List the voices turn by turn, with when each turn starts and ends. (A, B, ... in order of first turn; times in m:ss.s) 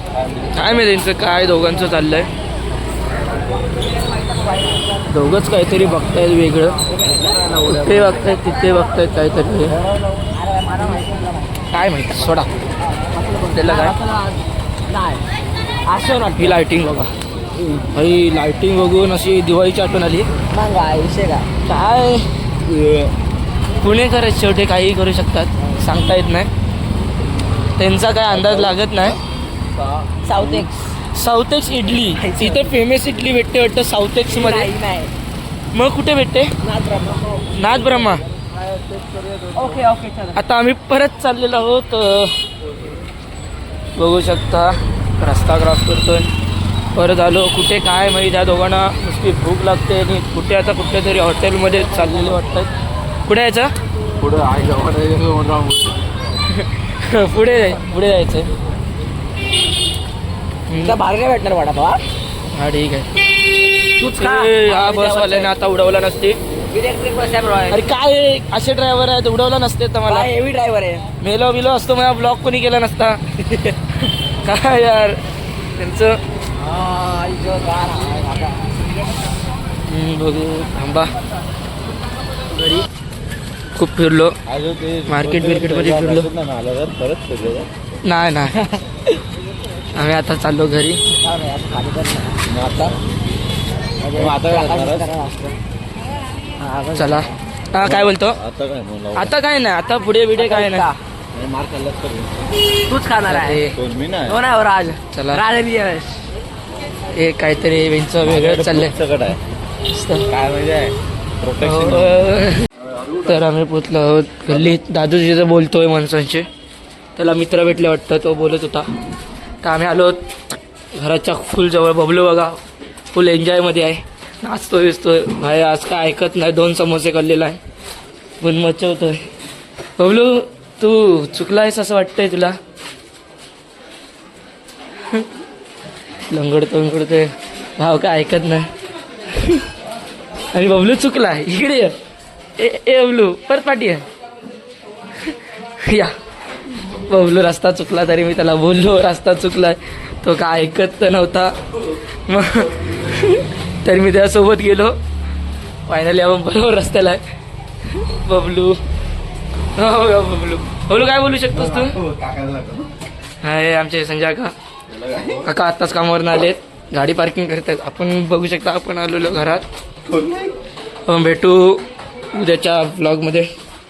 0:00.2-0:00.7 A
0:00.5-0:02.3 B
0:04.2-0:04.9 C
0:05.1-0:06.8 B
0:07.0-0:07.4 C
0:07.2-0:08.1 A
0:07.6-0:09.8 B
0:10.0-0:10.3 A
0:10.3-0:11.6 C
0:11.7-0:12.5 B
0:12.8-0:15.3 C
0:13.5-0:14.0 B
0:15.9-0:16.6 C
0:16.4-0:17.1 B
0:17.9-0:20.3 B
0:20.5-0:21.5 C
0:21.6-0:22.3 B
0:22.6-0:23.1 A
0:23.8-0:26.5 B
0:27.8-0:29.2 B
0:28.3-0:29.1 A
0:29.8-0:30.7 A
0:30.2-0:30.8 C
0:31.1-0:34.7 B
0:32.2-0:32.8 C
0:34.3-0:35.1 C
0:35.7-0:36.5 B
0:36.6-0:37.6 C
0:37.5-0:38.2 B
0:38.4-0:39.8 A
0:39.6-0:40.4 C
0:40.3-0:42.4 B
0:44.0-0:46.3 B
0:47.0-0:52.7 B
0:53.2-0:53.7 B
0:54.2-0:56.0 A
0:56.5-0:58.5 B
1:00.7-1:01.0 B
1:00.8-1:02.0 C
1:02.5-1:03.4 B
1:04.0-1:05.5 C
1:04.0-1:06.4 B
1:06.7-1:07.9 C
1:07.7-1:10.3 B
1:10.1-1:11.1 C
1:11.2-1:15.2 B
1:15.8-1:16.2 B
1:16.6-1:18.8 C
1:19.8-1:21.1 B
1:22.6-1:22.8 C
1:23.7-1:24.4 B
1:24.5-1:27.7 A
1:25.1-1:26.3 B
1:28.0-1:28.8 B
1:29.9-1:31.0 B
1:31.2-1:32.4 C
1:32.5-1:33.0 A
1:34.0-1:35.6 C
1:34.2-1:35.1 A
1:36.6-1:37.3 C
1:37.0-1:38.4 B
1:37.8-1:39.3 A
1:39.1-1:40.9 B
1:40.4-1:41.0 C
1:41.3-1:42.6 A
1:42.8-1:43.6 C
1:43.3-1:43.8 B
1:43.7-1:44.4 A
1:44.3-1:46.2 C
1:45.1-1:45.4 B
1:47.1-1:49.0 B
1:48.2-1:49.4 A
1:49.9-1:50.3 B
1:50.3-1:52.4 A
1:51.6-1:52.7 B
1:52.9-1:53.3 A
1:53.2-1:56.5 B
1:57.2-1:58.9 B
1:59.6-2:00.3 B
2:01.0-2:02.6 B
2:03.1-2:07.6 B
2:08.4-2:09.2 B
2:10.0-2:12.6 B
2:16.3-2:18.7 B
2:19.3-2:19.7 B
2:20.5-2:22.0 B
2:22.6-2:24.0 B
2:25.2-2:26.2 B
2:26.8-2:35.0 B
2:35.9-2:37.2 B
2:37.9-2:38.8 B
2:39.8-2:42.0 B
2:41.7-2:42.9 A
2:43.4-2:44.5 B
2:44.9-2:45.5 A
2:45.3-2:49.6 B
2:50.1-2:50.5 A
2:51.1-2:53.5 B